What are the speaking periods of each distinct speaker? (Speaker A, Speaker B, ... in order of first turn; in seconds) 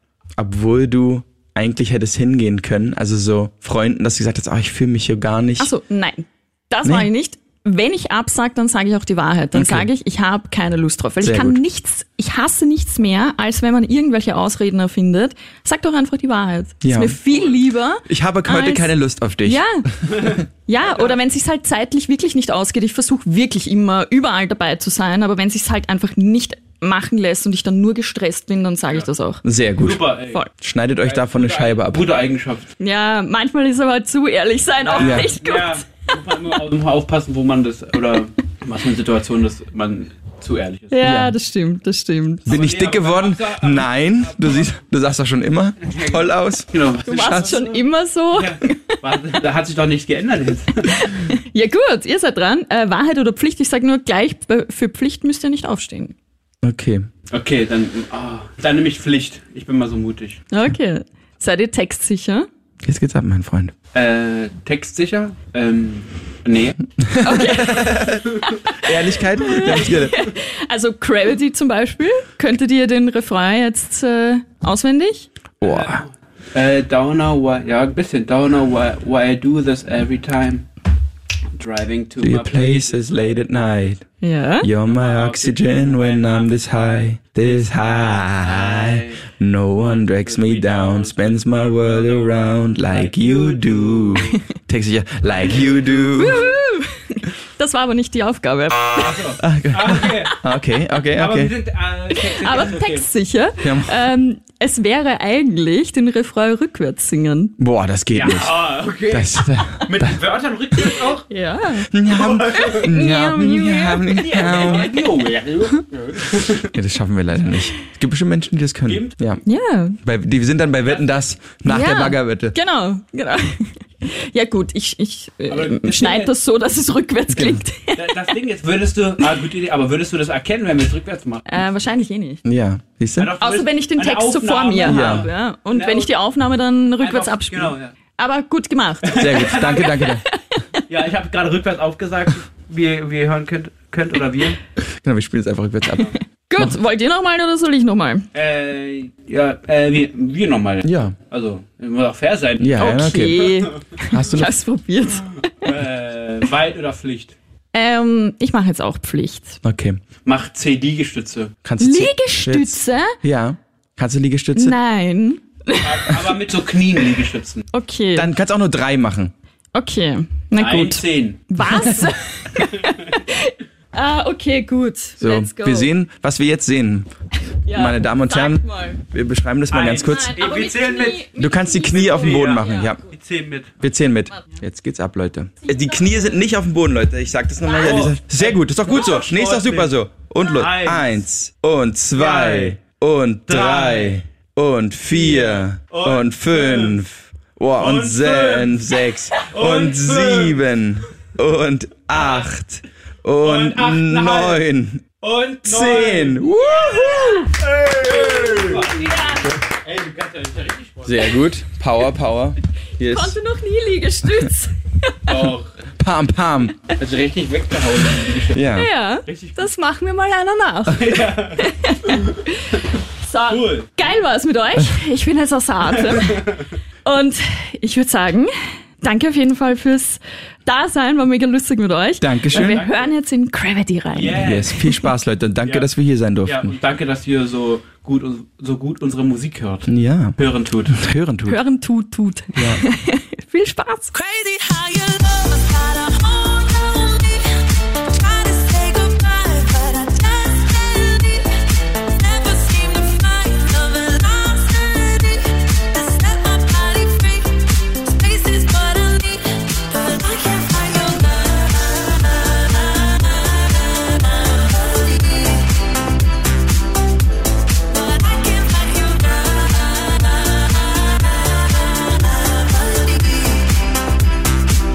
Speaker A: 0.4-5.7, 6.8-7.1, 9.5-9.9, 11.2-11.6, 16.8-17.2, 18.1-20.3, 29.4-32.1, 35.0-35.3, 41.0-41.4, 42.5-47.5, 56.6-57.1, 62.8-63.7, 67.0-70.2, 75.6-76.0, 82.2-84.0, 84.6-96.5, 99.4-101.5, 103.6-104.0, 107.6-110.2, 111.9-115.0, 116.6-119.4, 120.0-122.6, 127.3-127.6, 132.4-133.3, 134.8-135.3, 139.1-140.2, 144.8-146.8, 150.8-151.1, 152.6-153.5, 154.1-154.5, 159.6-160.0, 161.6-164.8, 168.2-169.3, 175.2-177.1, 177.7-180.4, 181.3-183.0, 183.8-205.0, 205.6-208.9, 211.0-213.4, 216.0-216.8, 218.5-218.9, 232.2-232.8, 234.3-236.7, 239.9-240.4, 240.9-241.6, 242.6-242.8
Speaker B: 5.6-18.9, 19.4-29.4, 32.8-35.8, 40.9-42.5, 47.1-49.0, 51.0-56.1, 60.5-62.5, 67.2-75.3, 84.2-84.7, 96.1-99.2, 102.2-107.5, 110.8-115.0, 119.5-120.0, 121.7-128.2, 131.5-132.4, 133.4-139.2, 140.1-140.4, 146.5-148.3, 152.8-155.7, 157.7-159.6, 161.8-163.2, 164.6-166.2, 167.7-168.3, 169.7-175.9, 177.6-179.0, 180.0-183.0, 206.7-207.5, 209.0-209.6, 213.0-215.3, 218.7-235.1, 241.4-244.2
Speaker C: 17.3-17.6, 20.1-21.1, 29.8-30.4, 31.0-32.7, 34.8-41.0, 42.5-44.8, 45.8-51.1, 57.3-60.5, 63.9-66.8, 75.6-80.7, 81.6-83.9, 84.8-89.2, 89.8-94.4, 95.2-96.4, 99.0-100.4, 101.1-103.1, 108.1-111.3, 112.1-112.9, 114.2-116.8, 118.9-119.4, 125.5-126.3, 128.0-131.6, 133.2-136.1, 137.0-137.9, 139.0-140.0, 140.9-144.6, 148.3-153.8, 155.6-157.4, 160.3-161.6, 165.8-167.7, 170.6-171.9, 179.7-183.8, 187.7-189.9, 190.4-191.2, 192.1-192.8, 193.5-194.2, 195.1-197.0, 197.8-200.7, 202.1-202.5, 203.4-204.6, 205.2-206.5, 207.6-211.4, 215.3-215.8, 216.9-218.7, 219.3-219.7, 220.9-222.4, 223.5-223.9, 226.1-226.6, 232.5-233.1, 234.1-234.7, 235.6-235.9, 236.4-241.0
Speaker D: 244.1-265.9, 267.9-274.1